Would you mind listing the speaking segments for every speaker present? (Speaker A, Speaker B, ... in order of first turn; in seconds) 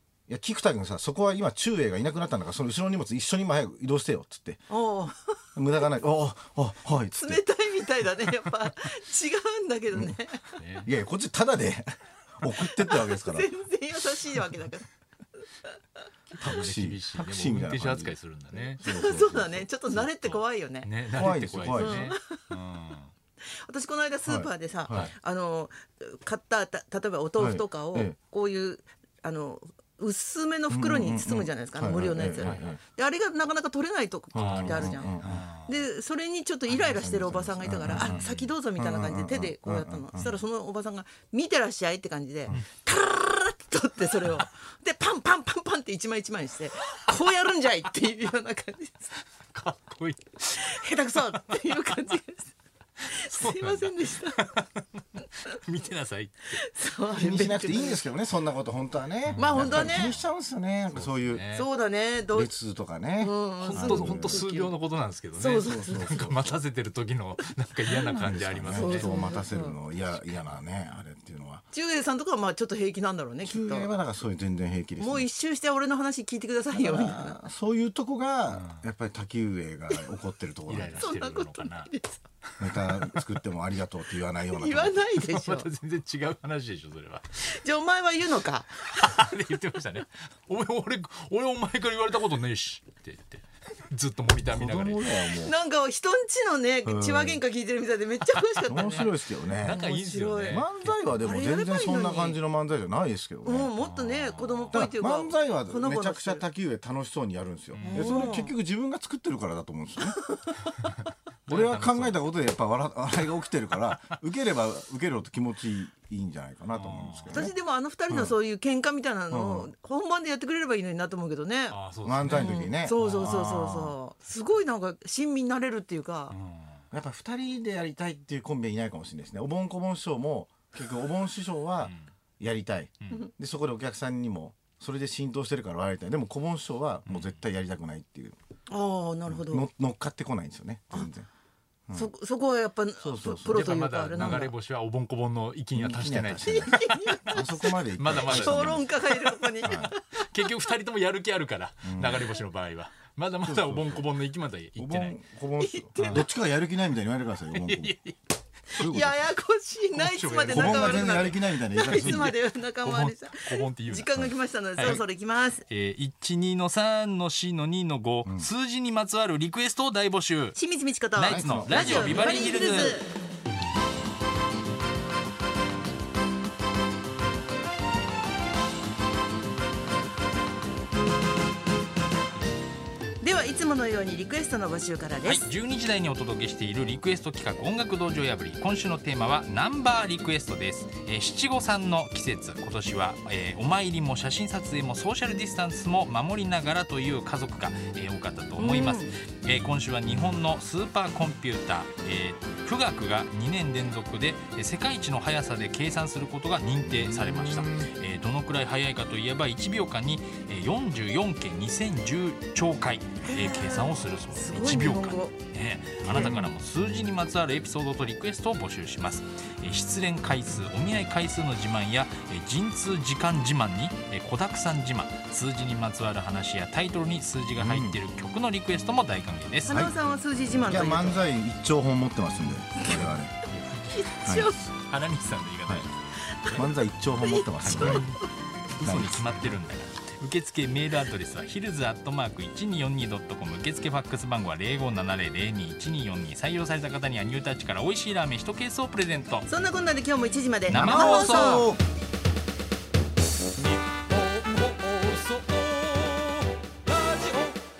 Speaker A: 0.3-4.7, 5.5-7.4, 9.9-10.2, 10.8-13.5, 16.4-19.7, 21.1-22.1, 24.2-25.1, 27.4-28.1, 30.7-32.8, 34.3-35.4, 36.7-40.3, 57.1-61.4, 62.3-64.4, 65.6-66.6, 67.8-71.6, 73.4-75.3, 76.7-81.1, 82.6-85.0, 94.5-95.5, 96.8-97.4, 98.7-99.8, 100.5-103.7, 104.7-110.2, 111.5-117.5, 118.1-118.3, 119.3-119.7, 122.0-124.0, 126.9-138.4, 139.3-141.3, 143.0-144.5, 145.8-148.9, 149.6-149.9, 151.8-152.3, 153.4-154.0, 154.8-157.9, 158.7-159.2, 160.4-162.3, 168.2-168.5, 171.2-172.3, 206.8-207.9, 216.0-216.5, 227.6-228.0, 229.7-229.9, 230.6-233.3, 234.2-234.6, 236.5-238.1, 238.8-239.5, 250.7-251.8
Speaker B: 4.7-5.4, 7.2-10.5, 12.5-14.8, 18.8-22.4, 23.4-49.1, 50.5-52.5, 53.0-54.5, 56.5-58.1, 59.3-60.1, 61.5-62.5, 63.2-64.7, 65.3-66.2, 68.7-69.8, 71.7-73.9, 75.0-77.4, 81.0-82.2, 84.4-85.7, 87.4-89.4, 95.3-100.7, 101.2-102.4, 103.4-106.5, 107.9-108.5, 110.1-110.9, 117.3-126.3, 138.7-139.7, 141.9-144.5, 146.4-150.4, 155.6-156.3, 158.7-165.6, 170.5-173.1, 183.2-185.5, 198.6-199.1, 213.2-215.3, 229.7-231.2, 233.9-234.6, 236.3-236.6, 237.2-238.2, 249.5-251.7
Speaker C: 10.5-10.9, 16.3-18.9, 19.9-23.1, 24.9-25.1, 32.4-32.8, 34.3-35.8, 37.8-38.5, 49.5-52.0, 53.0-56.6, 59.2-60.3, 60.9-61.7, 63.6-69.3, 78.5-78.8, 80.7-81.9, 82.5-83.2, 85.1-87.4, 88.8-95.2, 98.3-101.3, 103.8-104.8, 107.7-108.4, 111.5-112.2, 116.7-117.5, 121.7-123.6, 126.3-126.8, 131.8-132.1, 133.0-133.3, 137.1-137.4, 143.4-155.2, 155.9-156.3, 157.5-158.2, 159.9-165.0, 165.6-170.6, 171.1-173.0, 185.2-229.8, 232.9-236.7, 237.6-249.5, 250.7-251.7, 254.5-256.1, 257.1-257.5